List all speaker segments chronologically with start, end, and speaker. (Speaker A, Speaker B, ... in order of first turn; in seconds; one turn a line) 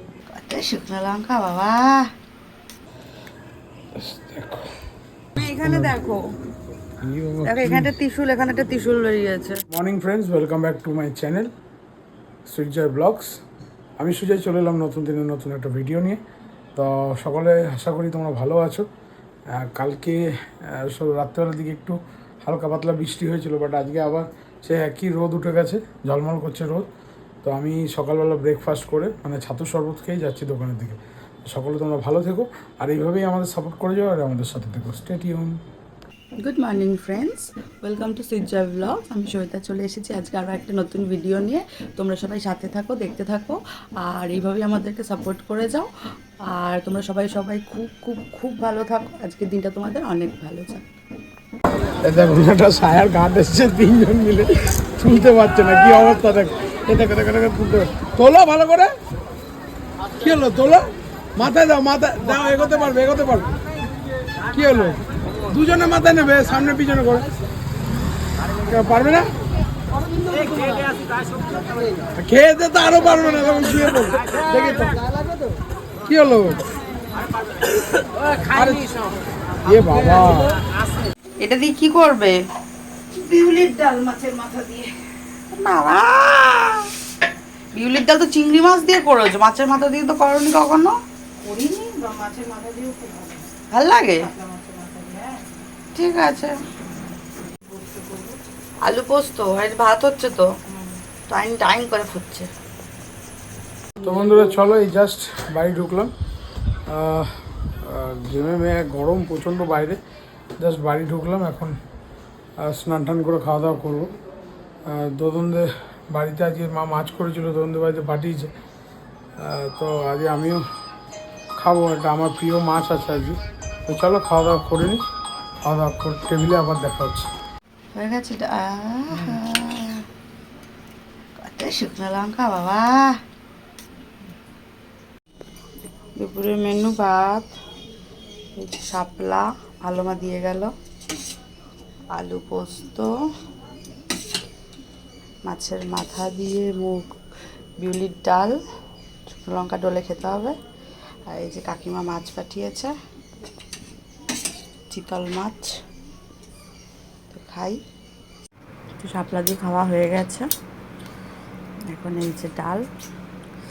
Speaker A: 0.3-2.1
Speaker B: 3.9-4.7
Speaker A: 5.3-6.2
Speaker B: 5.4-5.9
Speaker B: 7.0-7.9
Speaker A: 7.4-9.6
Speaker B: 9.7-11.5
Speaker B: 12.4-13.4
Speaker B: 14.0-16.2
Speaker B: 16.8-18.9
Speaker B: 19.5-26.9
Speaker B: 27.4-35.6
Speaker A: 36.4-45.9
Speaker A: 46.5-50.8
Speaker B: 52.0-58.9
Speaker B: 60.2-63.5
Speaker B: 64.5-67.3
Speaker B: 68.6-69.3
Speaker B: 72.2-74.8
Speaker B: 76.0-76.7
Speaker B: 78.4-78.9
Speaker B: 79.6-80.5
Speaker A: 81.4-82.4
Speaker A: 83.1-84.9
Speaker A: 85.5-86.9
Speaker A: 87.7-91.0
Speaker C: 91.5-93.5
Speaker A: 93.7-94.3
Speaker C: 94.3-95.4
Speaker A: 95.9-96.5
Speaker C: 97.7-98.3
Speaker A: 98.8-100.5
Speaker A: 101.3-102.5
Speaker B: 104.0-106.1
Speaker B: 106.9-110.0
Speaker B: 110.6-111.8
Speaker B: 112.6-114.1
Speaker B: 114.8-118.5
Speaker B: 119.4-120.6
Speaker B: 121.6-125.0
Speaker B: 125.6-127.3
Speaker A: 127.9-130.1
Speaker A: 131.4-133.2
Speaker A: 136.2-137.5
Speaker A: 138.6-140.7
Speaker A: 142.1-143.1
Speaker A: 145.5-147.1
Speaker A: 147.8-148.6
Speaker A: 149.3-150.5
Speaker A: 151.3-152.9
Speaker A: 154.9-155.7
Speaker A: 157.3-157.8
Speaker A: 159.0-160.4
Speaker A: 161.9-162.8